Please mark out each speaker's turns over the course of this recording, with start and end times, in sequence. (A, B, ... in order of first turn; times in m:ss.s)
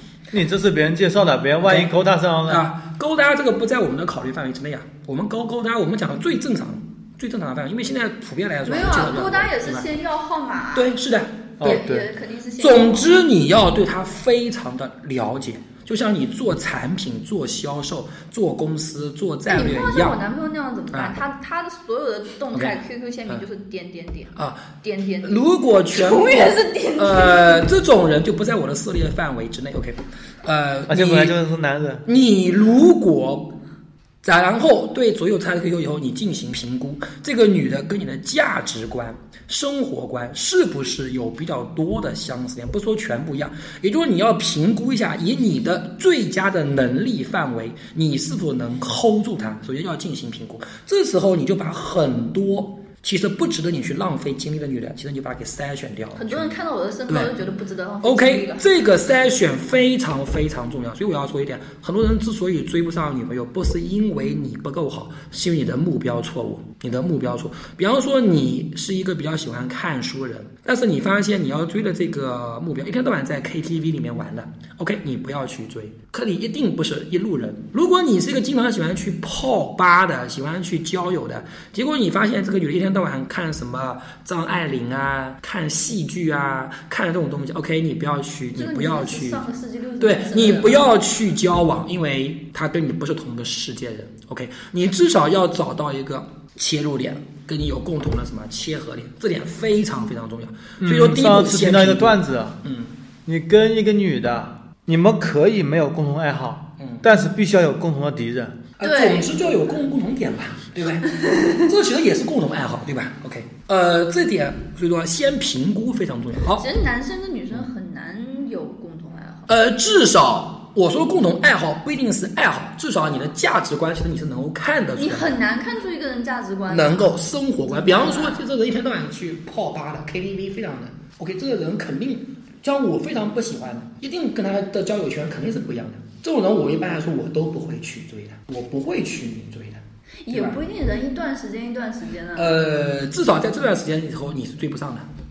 0:00.3-0:02.6 A
0:01.6-0:01.9 B
0:02.5-0:09.9 B
0:08.7-0:10.9 C
0:10.8-0:11.8 B
0:11.6-0:12.1 A
0:11.6-0:13.2 C
0:12.6-0:20.2 B
0:19.5-0:27.6 C
0:22.5-0:23.4 B
0:24.4-0:24.7 B
0:25.2-0:31.4 B
0:30.9-0:32.0 A
0:32.1-0:33.5 B
0:34.2-0:56.5 B
0:56.2-0:58.7 C
0:57.1-0:57.3 B
0:58.0-1:29.4 B
1:28.6-1:30.9 C
1:30.0-1:43.0 B
1:40.8-1:42.6 A
1:43.3-1:48.6 A
1:46.8-1:47.0 B
1:48.8-1:56.7 B
1:48.8-1:49.3 C
1:56.6-1:59.5 C
1:59.5-2:05.4 B
2:05.0-2:07.1 C
2:06.7-2:20.6 B
2:07.7-2:08.4 C
2:20.3-2:22.6 C
2:22.4-2:25.1 B